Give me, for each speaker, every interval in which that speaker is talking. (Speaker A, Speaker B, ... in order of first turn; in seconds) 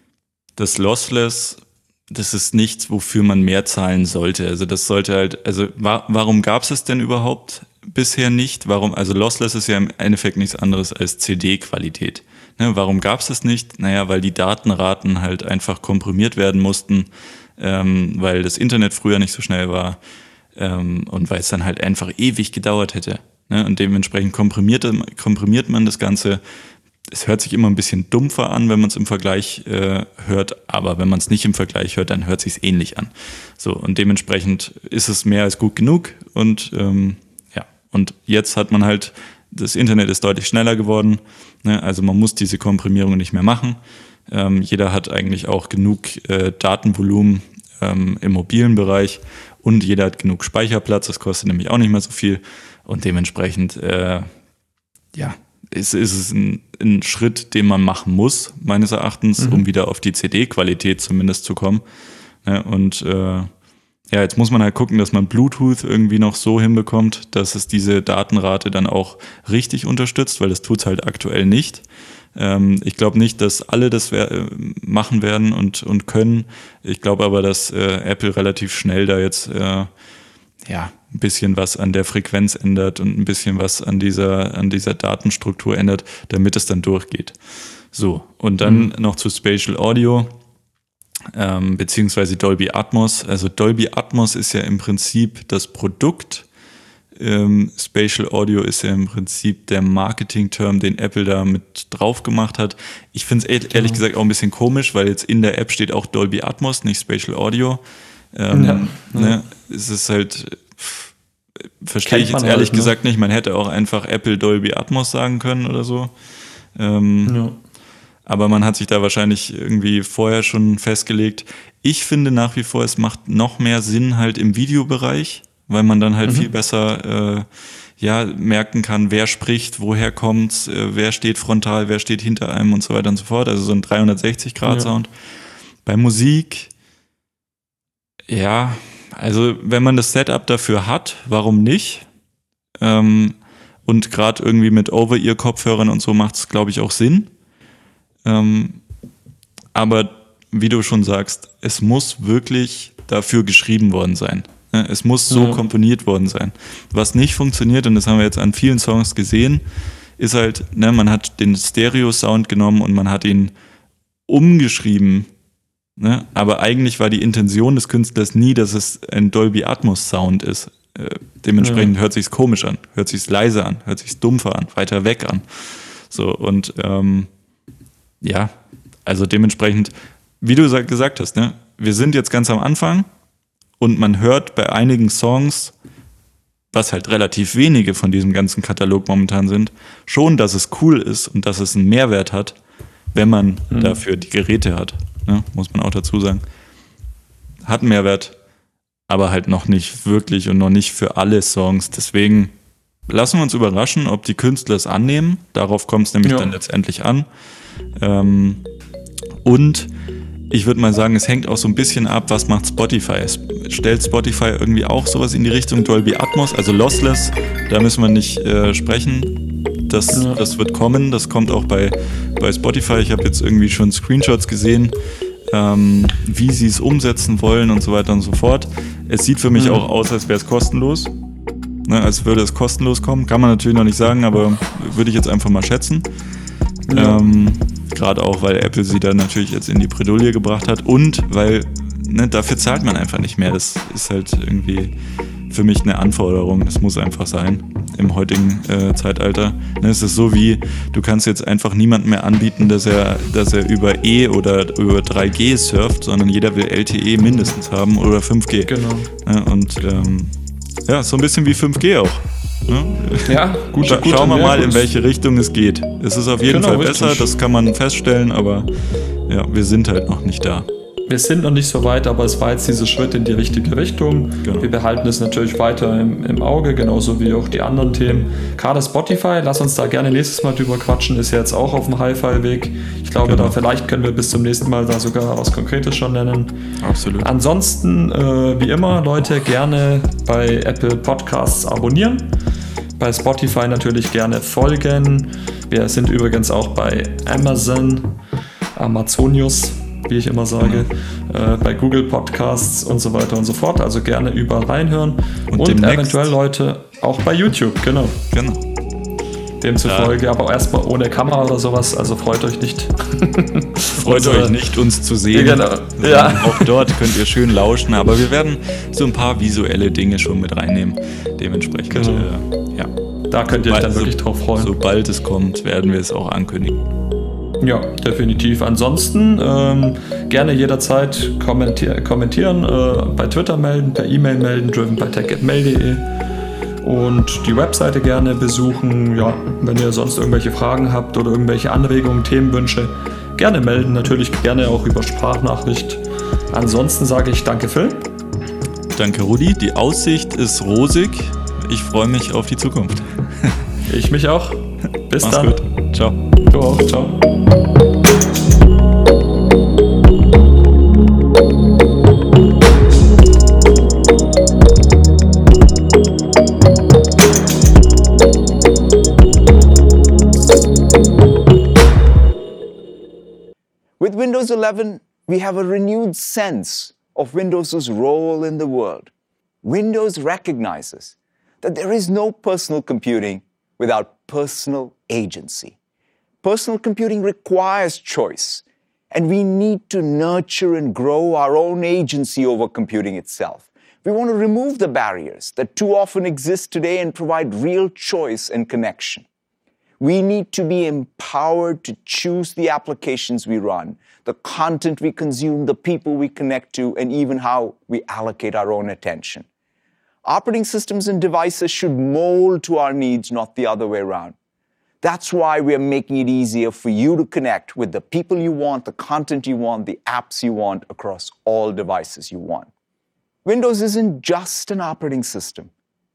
Speaker A: 0.6-20.0, 20.6-26.4, 27.1-54.3, 55.1-61.8, 62.4-63.5, 64.1-71.8, 72.3-79.9, 80.7-87.4, 87.9-90.4, 91.3-96.5, 97.2-107.8, 108.3-111.1, 111.8-116.1, 116.8-117.4, 118.3-127.5, 128.0-135.1, 135.8-136.7, 138.3-142.1, 142.8-147.3, 148.2-148.8, 149.8-159.6, 160.2-163.5, 164.3-165.3, 166.0-177.3, 178.2-178.5, 179.1-183.1, 183.8-185.7, 186.7-192.6, 193.1-196.4, 197.6-198.4, 199.1-202.5, 203.1-207.3, 208.0-208.6, 209.4-209.9, 210.5-225.0, 225.5-231.1, 231.9-236.1, 236.9-244.9, 245.5-260.3, 260.9-268.7, 269.3-270.7, 274.4-274.7, 283.2-283.6, 286.8-287.3, 300.6-300.9, 305.5-306.3, 308.3-308.6, 309.8-310.1, 314.0-322.9, 323.5-326.9, 348.9-353.6, 355.2-356.2
Speaker B: 59.4-59.6, 88.6-88.9, 103.7-104.0, 108.5-109.4, 112.0-112.9, 117.3-117.6, 134.7-134.9, 155.3-155.6, 171.6-171.9, 193.7-194.0, 206.2-206.5, 220.1-220.4, 229.5-229.8, 236.9-237.2, 258.7-259.1, 263.2-264.9, 266.5-267.3, 271.1-286.6, 287.2-292.3, 293.0-298.1, 298.8-308.2, 309.6-314.6, 315.3-316.8, 321.9-322.3, 323.3-324.7, 327.6-336.1, 336.8-346.0, 346.5-348.1, 353.9-355.6, 356.5-357.2
Speaker C: 374.0-379.1, 379.6-385.8, 386.4-399.3, 400.0-409.5, 410.2-414.4, 415.0-422.7, 423.4-425.7